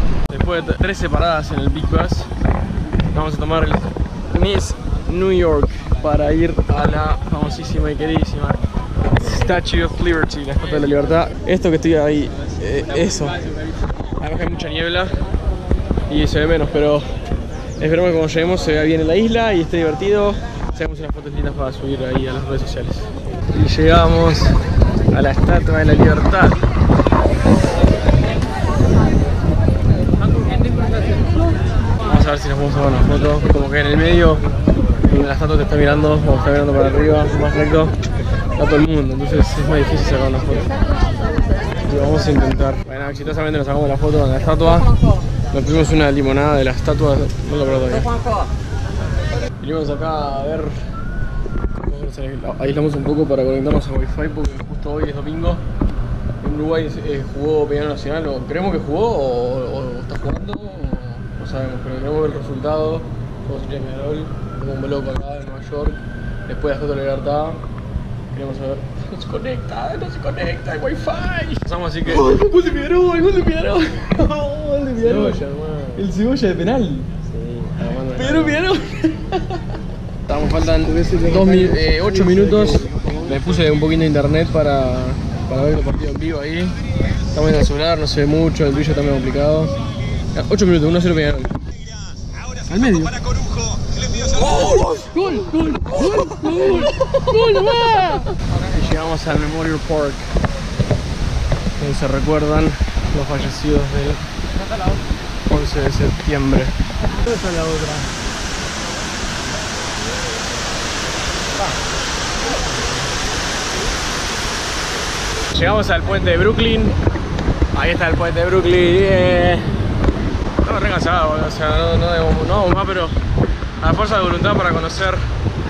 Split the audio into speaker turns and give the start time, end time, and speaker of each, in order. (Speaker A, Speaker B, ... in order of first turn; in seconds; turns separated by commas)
Speaker A: 0.3-2.3, Speaker A: 3.1-8.6, Speaker A: 9.1-15.3, Speaker A: 16.1-17.1, Speaker A: 17.8-24.6, Speaker A: 25.1-26.6, Speaker A: 32.0-34.5, Speaker A: 35.0-37.9, Speaker A: 38.5-40.8, Speaker A: 41.8-44.9, Speaker A: 45.5-48.1, Speaker A: 49.6-50.8, Speaker A: 51.8-55.6, Speaker A: 56.4-67.6, Speaker A: 68.3-79.6, Speaker B: 75.2-75.8, Speaker A: 80.3-86.8, Speaker B: 80.8-83.4, Speaker A: 87.3-89.7, Speaker A: 90.3-91.5, Speaker A: 92.6-93.4, Speaker A: 94.1-100.3, Speaker A: 101.8-104.2, Speaker A: 105.5-106.7, Speaker B: 107.1-108.1, Speaker A: 115.5-117.0, Speaker A: 117.7-119.8, Speaker A: 120.6-123.2, Speaker A: 123.8-125.2